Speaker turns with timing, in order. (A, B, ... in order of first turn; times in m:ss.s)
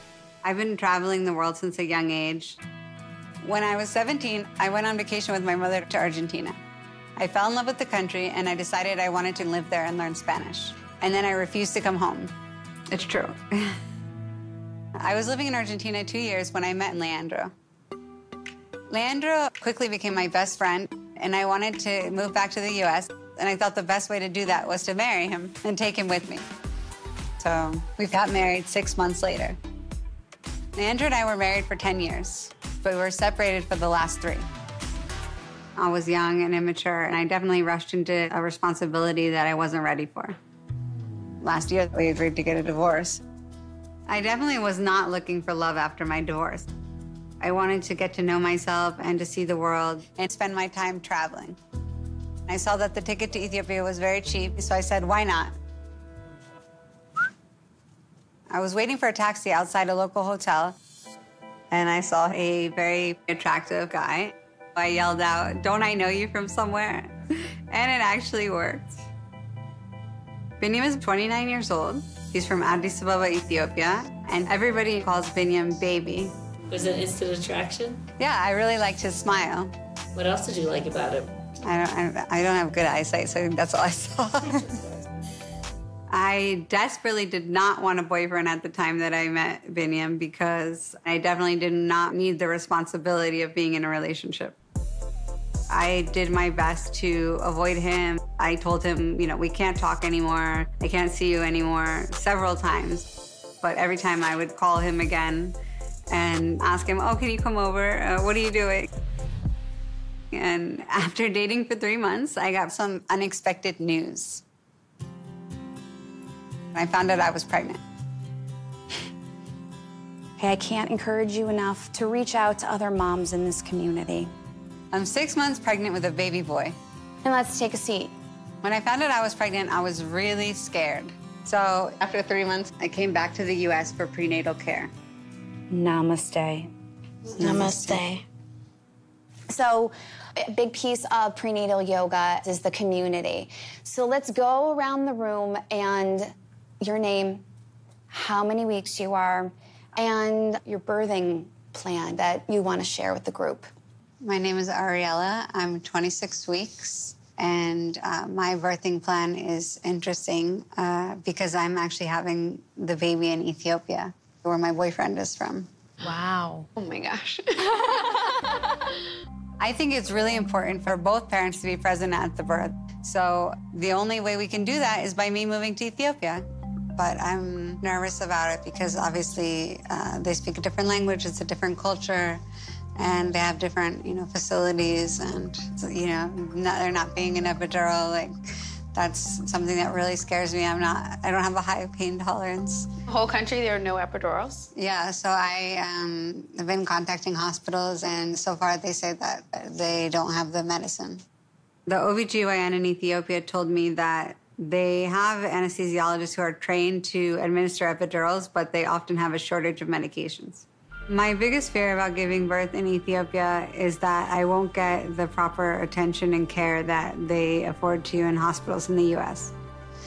0:00.4-0:02.6 A
0:03.4-0:06.6 A
0:07.2-0:12.3 A
0:12.9-0:13.8 A
0:15.0-0:17.5 A
0:18.9-0:26.5 A
0:27.4-0:29.6 A
0:30.8-0:34.5 A
0:35.8-0:40.4 A
0:41.4-0:43.2 A
0:44.1-0:46.7 A
0:47.4-0:51.6 A
0:52.5-0:55.6 A
0:58.5-1:00.8 A
1:01.7-1:09.0 A
1:10.6-1:16.3 A
1:16.7-1:18.0 B
1:18.2-1:19.7 A
1:20.1-1:21.3 B
1:21.6-1:24.8 A
1:26.1-1:34.6 A
1:35.7-1:43.1 A
1:43.6-1:45.6 A
1:46.1-1:48.9 A
1:50.3-1:54.4 A
1:56.7-1:57.8 A
2:00.4-2:04.3 C
2:04.9-2:06.8 A
2:07.2-2:08.1 C
2:08.6-2:14.9 A
2:15.7-2:16.7 C
2:17.4-2:18.1 A
2:17.4-2:18.0 C
2:17.4-2:18.2 D
2:19.5-2:27.4 C
2:28.1-2:33.7 C
2:34.2-2:45.7 A
2:46.0-2:49.1 D
2:49.6-3:02.4 A
3:03.0-3:08.4 A
3:08.9-3:12.9 A
3:13.1-3:14.7 D
3:14.7-3:21.2 A
3:21.9-3:39.5 A